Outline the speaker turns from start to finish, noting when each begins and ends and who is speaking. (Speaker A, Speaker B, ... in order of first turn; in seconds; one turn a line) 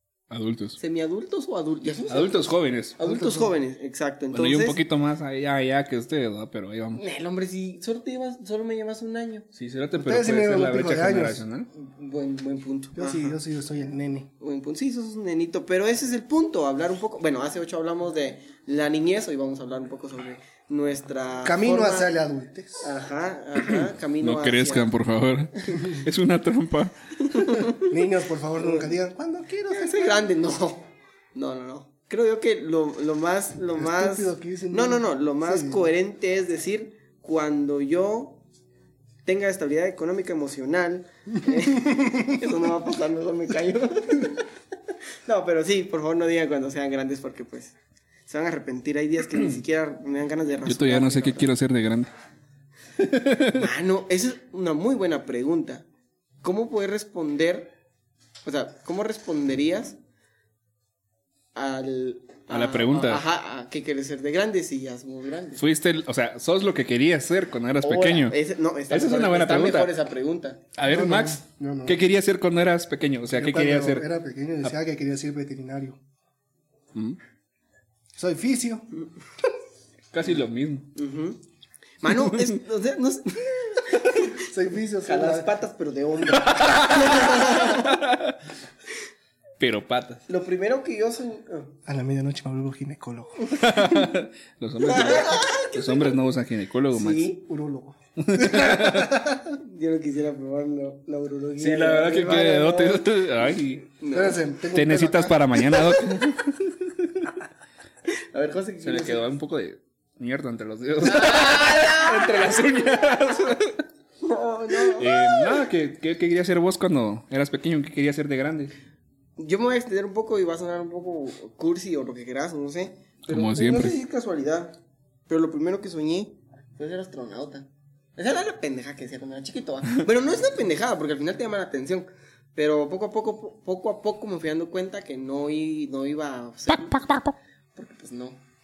Speaker A: 0.3-0.8
Speaker B: 0.8-4.8
Speaker A: 2.1-3.0
Speaker C: 3.0-3.5
Speaker A: 4.3-7.0
Speaker B: 6.9-9.4
Speaker A: 9.5-11.7
Speaker C: 10.0-11.4
Speaker B: 11.7-13.4
Speaker C: 12.9-14.3
Speaker B: 14.4-22.1
Speaker C: 21.4-22.9
Speaker B: 22.8-24.9
Speaker A: 23.7-27.7
Speaker B: 27.3-27.9
Speaker C: 27.8-30.2
Speaker B: 28.6-28.9
Speaker B: 29.7-38.4
Speaker C: 33.8-35.9
Speaker B: 39.2-44.5
Speaker B: 45.2-47.7
Speaker B: 48.3-51.5
Speaker A: 50.6-52.1
Speaker A: 53.0-53.7
Speaker B: 53.5-55.9
Speaker B: 56.4-57.8
Speaker B: 58.4-60.0
Speaker B: 61.5-65.6
Speaker A: 62.5-63.2
Speaker A: 65.6-68.4
Speaker B: 67.8-70.6
Speaker A: 68.9-69.9
Speaker A: 70.7-74.1
Speaker C: 70.8-72.0
Speaker C: 73.3-76.0
Speaker C: 78.2-78.9
Speaker A: 80.1-80.9
Speaker B: 80.9-81.4
Speaker B: 82.0-84.4
Speaker C: 84.3-85.5
Speaker B: 85.0-88.0
Speaker A: 86.5-88.3
Speaker A: 89.6-90.2
Speaker B: 90.3-91.8
Speaker C: 91.8-94.1
Speaker A: 93.6-97.2
Speaker B: 94.8-96.2
Speaker B: 96.9-97.4
Speaker C: 97.4-99.5
Speaker A: 98.2-99.2
Speaker B: 99.6-103.2
Speaker A: 101.6-103.9
Speaker B: 104.0-104.4
Speaker C: 104.1-105.8
Speaker A: 104.7-107.3
Speaker B: 108.1-109.3
Speaker A: 108.8-113.8
Speaker B: 111.1-112.4
Speaker B: 114.2-115.6
Speaker A: 114.9-118.7
Speaker B: 119.4-136.9
Speaker A: 123.3-124.0
Speaker A: 136.7-137.4
Speaker B: 137.7-138.4